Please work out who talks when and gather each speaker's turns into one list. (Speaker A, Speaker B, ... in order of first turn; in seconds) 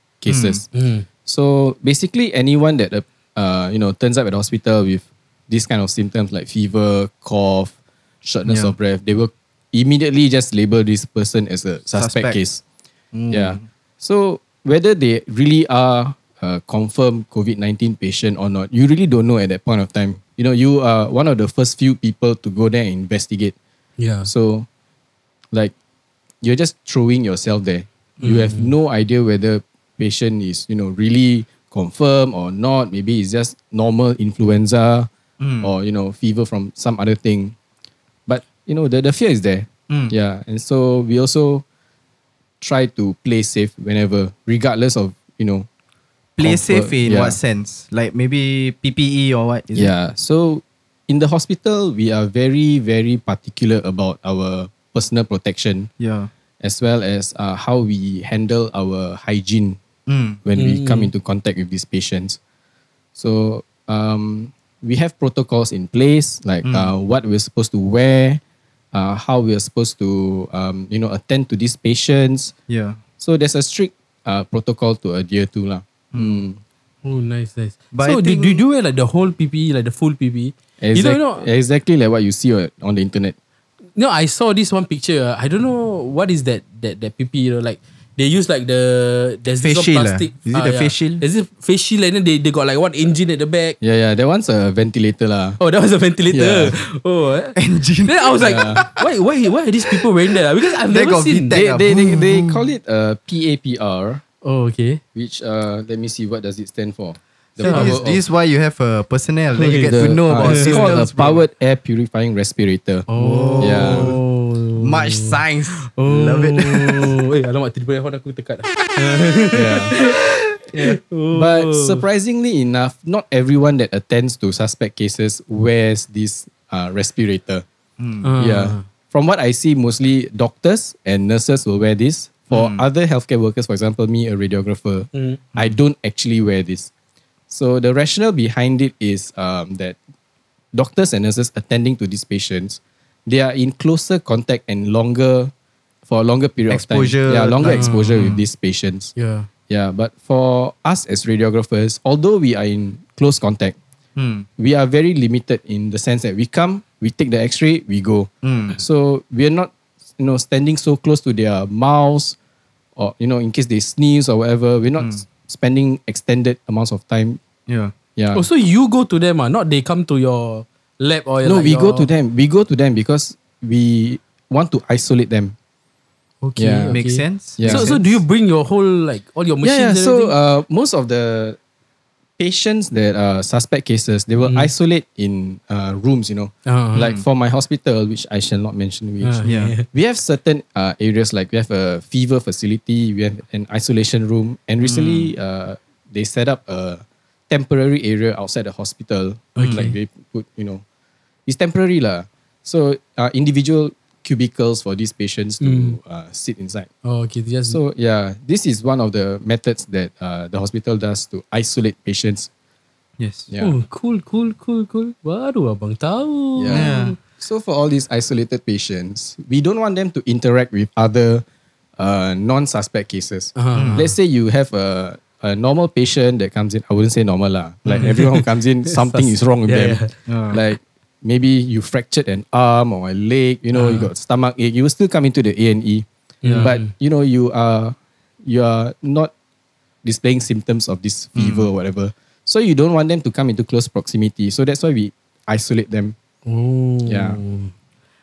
Speaker A: 0.2-0.6, 1.2-7.7, 8.2-12.6, 13.3-23.6, 24.2-24.7, 26.4-35.1, 35.6-37.5, 38.3-41.6, 42.6-45.7, 46.4-47.4, 49.8-55.9, 56.6-59.8, 60.4-62.4, 63.1-68.4, 68.9-72.5, 73.2-76.6, 80.8-83.4, 93.8-95.6, 96.3-96.8, 98.4-98.8, 101.5-104.2, 105.1-108.2, 109.8-113.1, 113.6-114.1, 119.5-119.9, 121.3-127.6, 128.4-136.9, 137.5-140.0, 140.7-145.5, 146.1-149.1, 149.7-153.8, 154.6-162.4, 162.9-167.4, 168.2-168.4, 171.4-175.6, 176.6-176.9, 177.6-177.9, 179.6-181.6, 182.4-200.8, 201.5-206.9, 207.7-212.5, 213.5-213.8, 216.6-221.4, 222.0-236.1, 236.6-239.3, 240.0-246.2, 247.1-247.4
Speaker B: 0.3-0.6, 8.5-8.7, 11.9-12.4, 13.1-13.6, 35.4-35.7, 46.4-49.9, 56.0-56.3, 60.1-60.4, 66.6-66.9, 72.7-73.0, 76.1-76.4, 77.9-78.6, 89.6-91.2, 97.6-99.0, 100.8-102.3, 107.6-111.4, 113.1-114.2, 114.8-117.1, 128.0-128.3, 132.5-132.8, 146.7-148.4, 154.2-154.5, 158.4-158.8, 167.7-167.9, 176.9-178.1, 186.9-187.2, 189.4-189.7, 194.8-195.3, 199.6-199.9, 213.2-213.5, 216.7-217.2, 223.7-224.1, 227.9-228.2, 230.3-230.6, 236.4-236.7, 241.4-241.7
Speaker C: 0.7-1.1, 24.0-24.3, 28.2-28.7, 60.6-61.1, 77.0-81.5, 84.0-93.8, 95.6-102.4, 104.4-105.0, 107.6-108.1, 109.5-111.1, 113.1-120.2, 120.7-122.0, 128.2-128.8, 135.1-135.4, 147.6-148.4, 149.2-149.5, 168.3-172.1, 176.4-180.3, 184.4-184.7, 186.7-187.1, 189.2-189.8, 199.6-199.9, 205.6-206.0, 207.1-207.8, 213.6-217.2, 223.6-224.1, 227.9-230.1, 233.7-234.1, 236.4-236.9, 246.4-247.7